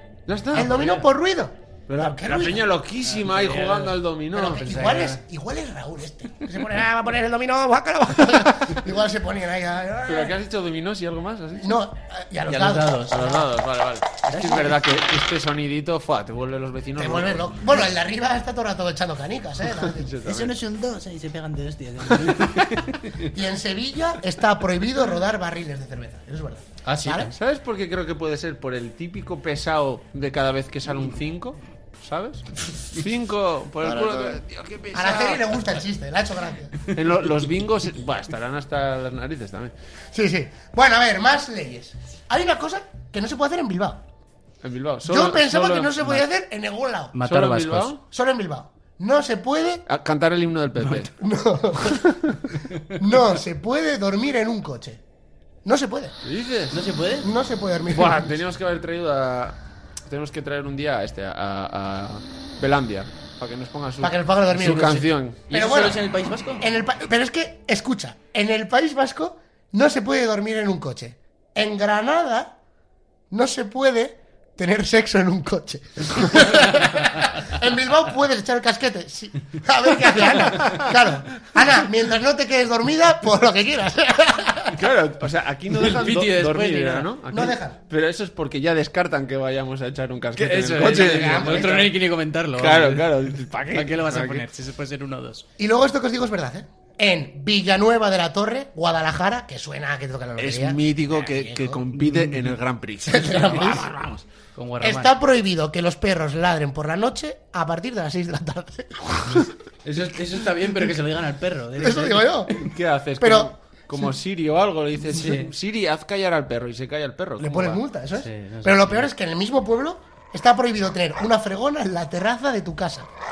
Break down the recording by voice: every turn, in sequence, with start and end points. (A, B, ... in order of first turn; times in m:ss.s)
0:00.3-0:01.0 A
0:00.5-0:02.7 B
0:01.9-0:05.2 A
0:03.1-0:04.0 C
0:04.3-0:10.4 B
0:04.6-0:05.2 C
0:10.1-0:11.8 A
0:11.6-0:13.4 B
0:12.5-0:13.4 C
0:13.1-0:17.6 A
0:14.3-0:14.8 C
0:17.0-0:20.2 B
0:19.8-0:20.6 A
0:20.2-0:23.3 C
0:22.2-0:22.8 A
0:23.3-0:27.3 B
0:26.8-0:27.3 C
0:27.3-0:35.8 A
0:33.8-0:34.4 B
0:34.9-0:36.8 B
0:36.9-0:39.7 A
0:40.1-0:44.0 B
0:44.6-0:46.2 A
0:45.0-0:47.2 B
0:47.1-0:48.0 C
0:47.2-0:48.0 A
0:48.1-0:49.8 B
0:49.9-0:51.1 A
0:51.0-0:52.2 B
0:51.8-0:52.4 A
0:52.9-0:55.0 B
0:55.6-0:56.2 B
0:56.2-0:56.8 A
0:56.7-0:57.3 C
0:57.2-0:58.4 B
0:57.9-1:05.4 A
1:04.0-1:06.0 B
1:05.5-1:06.7 C
1:06.6-1:12.6 B
1:13.3-1:24.8 B
1:20.4-1:21.4 A
1:24.7-1:31.9 A
1:25.8-1:27.1 C
1:27.3-1:27.8 B
1:30.4-1:33.1 C
1:30.8-1:31.9 B
1:32.6-1:34.5 A
1:33.7-1:35.4 C
1:35.6-1:41.9 B
1:40.4-1:44.2 A
1:43.0-1:43.9 B
1:44.6-1:45.2 C
1:44.8-1:49.5 B
1:49.8-1:52.5 C
1:51.8-1:52.6 B
1:52.6-1:57.8 A
1:53.2-1:53.5 B
1:55.1-1:55.5 C
1:57.4-2:03.1 B
1:58.2-1:59.1 C